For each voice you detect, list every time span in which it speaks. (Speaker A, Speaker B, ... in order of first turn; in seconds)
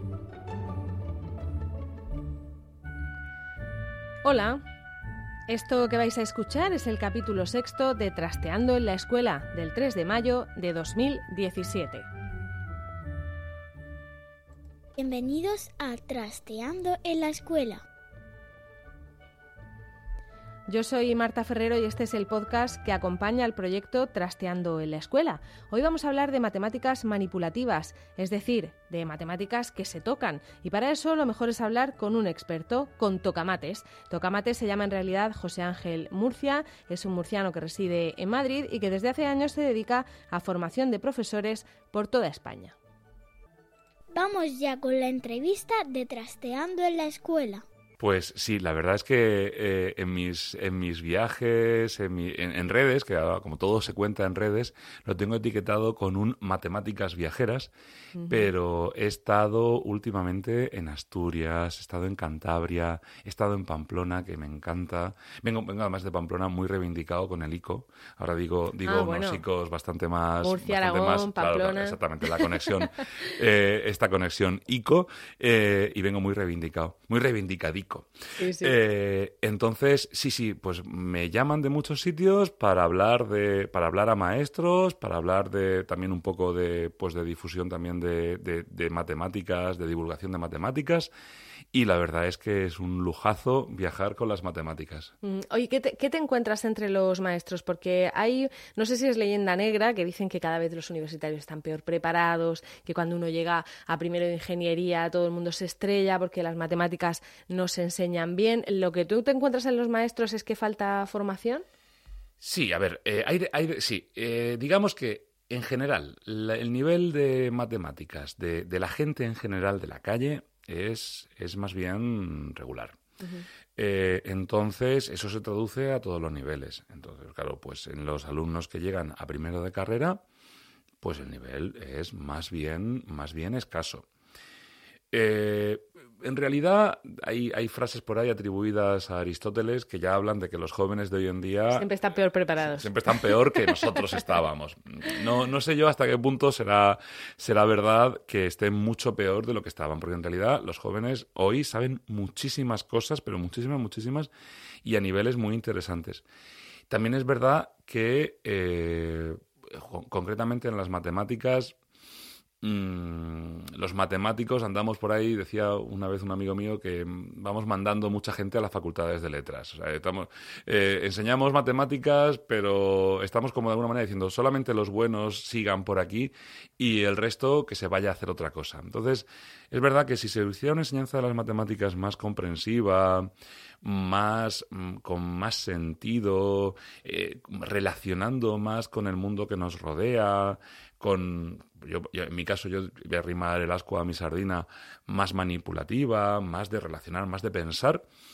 Speaker A: 4.2-4.6, 5.5-12.0, 20.7-42.8, 58.1-58.5, 68.8-69.4, 70.4-72.6, 78.4-78.8, 95.2-111.6, 123.2-123.5, 141.7-143.7
Speaker B: 15.0-17.8, 44.1-47.6
Speaker C: 48.0-57.7, 58.3-78.1, 78.6-91.1, 91.7-95.1, 112.4-123.0, 123.8-130.2, 131.0-134.0, 135.1-141.9, 142.6-154.3, 154.8-156.2, 156.9-161.7, 162.6-183.3, 183.8-198.0